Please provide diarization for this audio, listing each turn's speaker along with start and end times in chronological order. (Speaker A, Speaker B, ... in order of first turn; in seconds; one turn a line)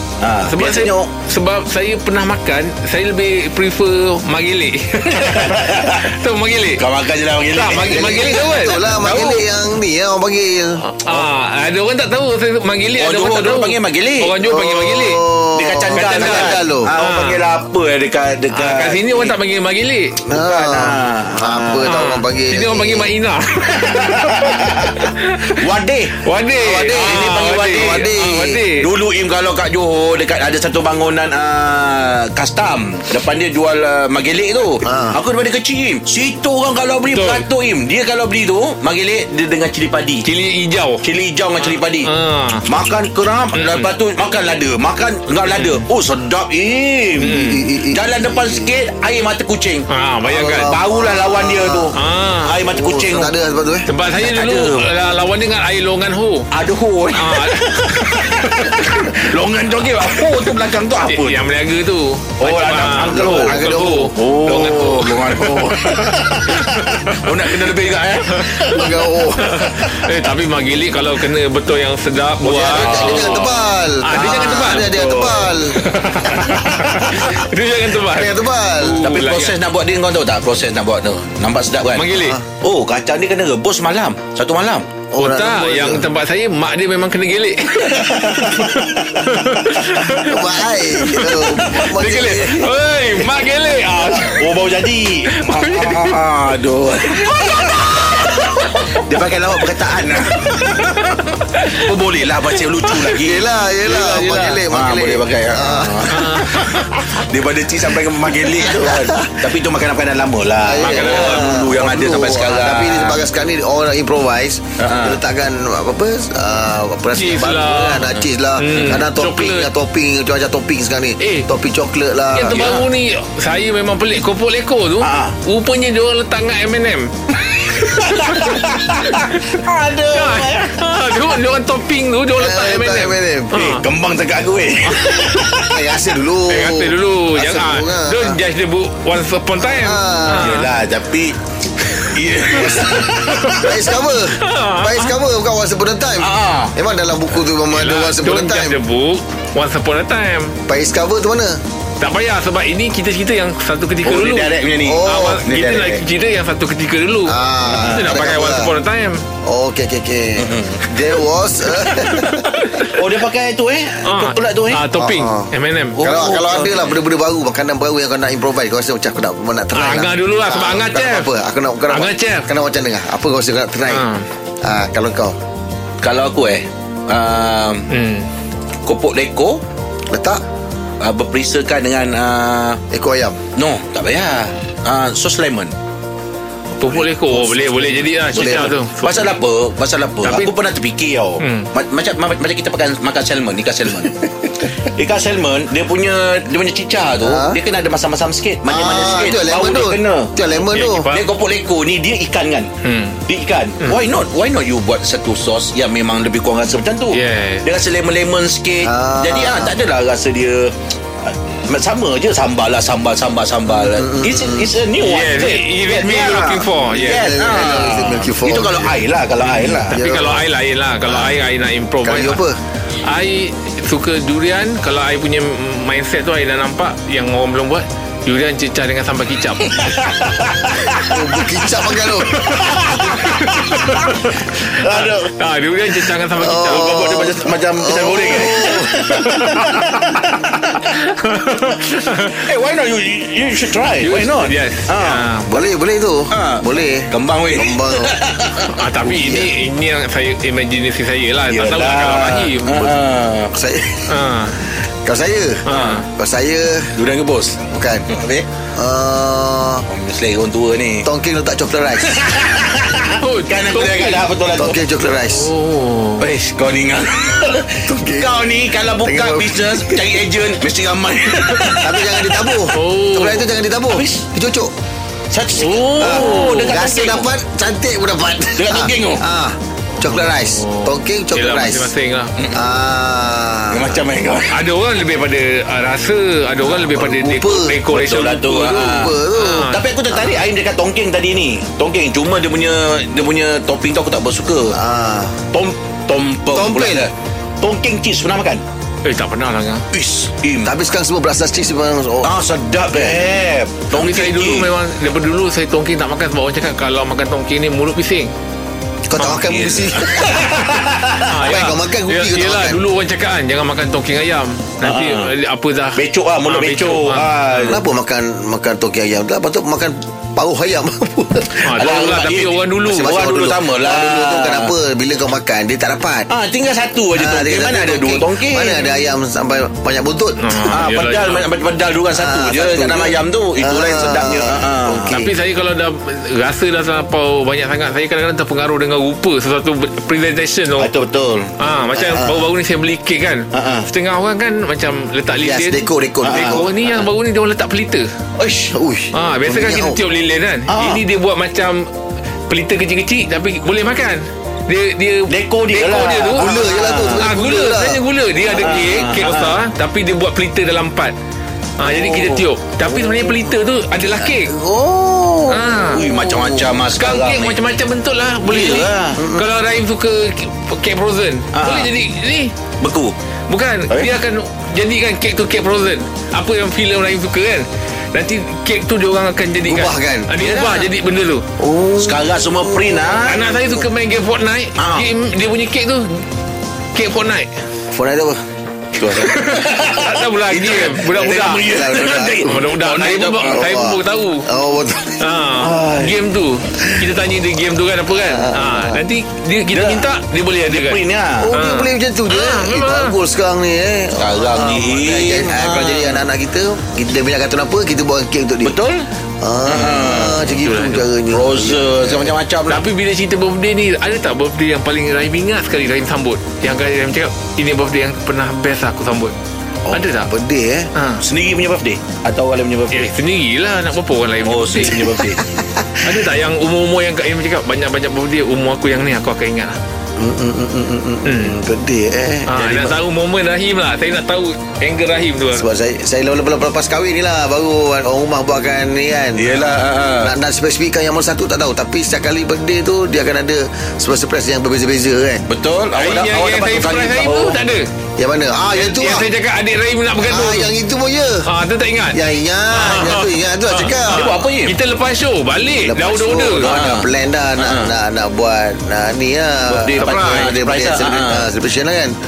Speaker A: 0.2-1.1
Speaker B: 0.5-6.9
Speaker A: 5.1-6.1
Speaker A: 6.8-8.6
Speaker B: 7.5-9.5
Speaker C: 7.7-10.8
Speaker B: 10.8-15.2
Speaker A: 13.0-14.4
Speaker C: 14.4-16.9
Speaker A: 15.6-19.4
Speaker B: 15.9-17.4
Speaker B: 18.5-20.2
Speaker C: 20.2-23.1
Speaker A: 20.3-21.9
Speaker B: 21.8-25.6
Speaker A: 23.7-26.2
Speaker B: 26.2-28.9
Speaker C: 26.6-28.6
Speaker A: 26.8-40.3
Speaker C: 34.8-35.2
Speaker B: 37.1-37.5
Speaker B: 40.2-41.0
Speaker A: 41.0-42.1
Speaker B: 41.6-42.6
Speaker A: 42.6-47.4
Speaker B: 43.5-43.9
Speaker B: 45.5-45.9
Speaker C: 47.2-48.7
Speaker B: 47.2-47.7
Speaker A: 47.9-49.9
Speaker B: 49.9-50.7
Speaker C: 50.2-51.9
Speaker A: 50.6-53.3
Speaker B: 51.9-52.6
Speaker C: 52.7-53.9
Speaker B: 53.9-56.5
Speaker A: 54.2-54.9
Speaker A: 56.5-61.5
Speaker B: 57.1-59.1
Speaker B: 61.0-67.6
Speaker A: 62.4-63.6
Speaker C: 63.1-64.1
Speaker A: 64.1-69.1
Speaker B: 68.3-68.8
Speaker C: 68.7-69.9
Speaker B: 69.4-75.0
Speaker C: 72.4-77.4
Speaker A: 72.6-73.6
Speaker A: 74.1-75.5
Speaker B: 75.7-79.6
Speaker C: 78.0-79.0
Speaker A: 79.0-82.1
Speaker B: 81.9-82.4
Speaker C: 82.1-82.4
Speaker A: 82.6-84.9
Speaker C: 85.1-86.1
Speaker B: 85.2-94.5
Speaker A: 87.8-90.2
Speaker C: 90.1-92.7
Speaker A: 93.8-103.5
Speaker B: 95.3-96.2
Speaker B: 97.1-99.0
Speaker B: 100.3-101.9
Speaker B: 102.9-103.1
Speaker C: 103.2-106.3
Speaker B: 103.9-104.6
Speaker A: 104.0-113.2
Speaker B: 106.1-107.1
Speaker C: 108.5-109.5
Speaker C: 110.6-122.7
Speaker B: 110.8-111.7
Speaker A: 114.8-115.2
Speaker B: 117.1-119.7
Speaker A: 118.2-119.0
Speaker B: 121.2-121.5
Speaker B: 122.3-127.1
Speaker A: 122.4-122.9
Speaker A: 125.0-125.4
Speaker A: 127.5-131.4
Speaker B: 127.7-129.5
Speaker B: 130.1-133.8
Speaker C: 132.4-133.7
Speaker A: 133.5-135.8
Speaker B: 134.9-135.5
Speaker C: 135.6-138.4
Speaker B: 136.5-140.7
Speaker C: 139.6-140.6
Speaker A: 140.3-141.4
Speaker A: 142.0-143.7
Speaker C: 142.5-148.8
Speaker B: 143.2-143.7
Speaker B: 144.3-145.2
Speaker A: 146.2-146.7
Speaker B: 147.7-150.6
Speaker C: 150.7-151.6
Speaker B: 152.0-159.2
Speaker A: 154.0-156.0
Speaker C: 154.8-155.7
Speaker C: 157.3-158.7
Speaker A: 157.7-158.2
Speaker C: 159.4-162.7
Speaker A: 160.4-160.9
Speaker B: 161.8-163.0
Speaker A: 162.9-164.8
Speaker B: 164.0-166.0
Speaker C: 164.9-174.1
Speaker A: 166.0-167.0
Speaker B: 169.7-171.3
Speaker B: 171.9-172.5
Speaker B: 173.9-174.3
Speaker C: 174.6-175.4
Speaker A: 176.0-177.9
Speaker B: 177.9-178.3
Speaker A: 178.8-179.6
Speaker C: 180.1-180.4
Speaker A: 181.0-182.8
Speaker C: 182.9-183.4
Speaker A: 183.6-185.7
Speaker B: 186.8-189.3
Speaker C: 186.8-188.7
Speaker A: 188.3-200.3
Speaker B: 190.2-190.6
Speaker B: 191.4-191.7
Speaker C: 197.2-197.6
Speaker C: 198.7-201.1
Speaker B: 200.5-201.3
Speaker A: 201.1-202.7
Speaker B: 202.8-203.2
Speaker A: 203.3-220.0
Speaker B: 207.1-207.7
Speaker C: 208.8-209.8
Speaker C: 213.8-214.7
Speaker B: 215.0-217.3
Speaker C: 217.1-219.0
Speaker B: 219.4-222.4
Speaker C: 219.7-220.5
Speaker C: 221.1-221.4
Speaker C: 222.0-222.6
Speaker B: 223.0-230.1
Speaker A: 229.6-235.3
Speaker C: 230.8-232.6
Speaker B: 232.3-237.2
Speaker A: 236.3-240.8
Speaker C: 236.4-239.3
Speaker B: 238.6-242.4
Speaker A: 241.7-245.3
Speaker B: 244.0-245.5
Speaker C: 245.5-248.2
Speaker A: 246.3-248.7
Speaker B: 248.7-252.8
Speaker C: 249.0-249.7
Speaker A: 251.5-253.5
Speaker C: 252.7-254.1
Speaker B: 254.1-254.6
Speaker C: 254.8-257.0
Speaker B: 255.7-256.1
Speaker A: 255.7-256.1
Speaker A: 256.9-258.5
Speaker C: 257.7-258.1
Speaker C: 258.7-259.9
Speaker A: 259.9-261.1
Speaker C: 261.0-262.7
Speaker A: 262.1-264.8
Speaker B: 263.1-264.3
Speaker C: 264.5-265.5
Speaker B: 265.3-266.2
Speaker A: 266.2-272.7
Speaker C: 267.8-268.3
Speaker C: 268.9-270.2
Speaker C: 271.7-274.7
Speaker B: 272.7-273.5
Speaker A: 273.9-274.3
Speaker A: 275.3-277.3
Speaker B: 275.6-276.8
Speaker C: 276.0-281.9
Speaker A: 278.6-279.2
Speaker B: 280.0-282.4
Speaker A: 282.4-282.6
Speaker C: 282.5-284.0
Speaker A: 283.7-284.7
Speaker B: 284.5-288.4
Speaker C: 286.6-287.8
Speaker A: 287.9-294.8
Speaker C: 288.3-290.4
Speaker B: 289.4-289.8
Speaker C: 294.7-295.5
Speaker A: 295.5-298.6
Speaker C: 296.5-297.1
Speaker B: 299.0-299.9
Speaker A: 299.9-300.7
Speaker C: 300.6-302.3
Speaker A: 302.2-304.7
Speaker C: 302.9-303.3
Speaker B: 303.9-308.3
Speaker C: 309.1-310.8
Speaker B: 309.2-309.5
Speaker A: 309.5-311.4
Speaker B: 310.2-310.6
Speaker B: 311.2-317.8
Speaker C: 311.4-312.8
Speaker A: 314.8-315.3
Speaker A: 316.0-317.8
Speaker C: 317.7-321.9
Speaker A: 321.6-324.7
Speaker B: 321.6-323.2
Speaker C: 322.9-326.3
Speaker A: 326.3-328.9
Speaker C: 327.1-330.7
Speaker B: 330.4-331.5
Speaker A: 330.7-335.2
Speaker C: 332.1-335.3
Speaker B: 335.1-340.9
Speaker A: 340.8-341.5
Speaker B: 341.6-348.1
Speaker C: 341.9-342.5
Speaker A: 343.5-343.9
Speaker C: 345.4-346.7
Speaker A: 346.2-347.0
Speaker A: 348.4-348.8
Speaker C: 348.7-350.0
Speaker B: 349.1-351.9
Speaker A: 350.7-351.0
Speaker B: 352.5-356.5
Speaker A: 355.3-357.3
Speaker C: 356.3-358.0
Speaker B: 357.1-361.1
Speaker A: 358.4-359.7
Speaker B: 361.8-364.6
Speaker A: 361.8-362.5
Speaker C: 362.8-363.5
Speaker C: 364.1-366.7
Speaker B: 365.5-366.0
Speaker A: 365.9-367.6
Speaker B: 366.9-372.5
Speaker A: 368.4-369.2
Speaker C: 369.2-369.5
Speaker A: 371.5-371.9
Speaker A: 372.8-373.1
Speaker B: 373.5-381.5
Speaker C: 379.6-380.4
Speaker A: 380.4-380.9
Speaker C: 381.6-383.9
Speaker A: 382.0-383.5
Speaker B: 383.2-386.3
Speaker A: 384.8-385.1
Speaker B: 386.9-387.5
Speaker C: 387.9-388.4
Speaker A: 389.0-393.7
Speaker B: 389.2-391.7
Speaker C: 391.2-392.7
Speaker B: 392.4-394.5
Speaker C: 393.5-395.3
Speaker B: 395.2-401.0
Speaker A: 395.6-396.1
Speaker C: 396.8-397.2
Speaker C: 398.1-399.0
Speaker A: 399.7-401.5
Speaker C: 401.4-408.8
Speaker B: 401.5-403.2
Speaker A: 404.2-406.3
Speaker A: 408.6-409.1
Speaker C: 409.4-412.4
Speaker A: 409.6-410.5
Speaker B: 410.4-411.1
Speaker A: 411.3-412.8
Speaker B: 412.7-419.3
Speaker C: 419.9-420.9
Speaker B: 419.9-420.3
Speaker B: 420.9-421.2
Speaker A: 421.2-423.1
Speaker B: 422.9-425.0
Speaker A: 424.4-425.5
Speaker C: 425.0-425.9
Speaker B: 426.0-429.8
Speaker C: 430.2-432.5
Speaker B: 431.2-431.6
Speaker B: 432.5-435.7
Speaker A: 432.5-433.0
Speaker C: 435.5-445.5
Speaker A: 439.4-440.3
Speaker A: 445.5-447.6
Speaker B: 445.9-447.9
Speaker C: 448.2-449.3
Speaker B: 448.7-450.7
Speaker C: 450.2-451.5
Speaker B: 451.4-452.2
Speaker C: 452.1-454.5
Speaker B: 452.7-456.7
Speaker A: 454.1-454.8
Speaker C: 455.8-462.1
Speaker A: 456.6-457.9
Speaker A: 459.7-461.5
Speaker B: 460.0-460.5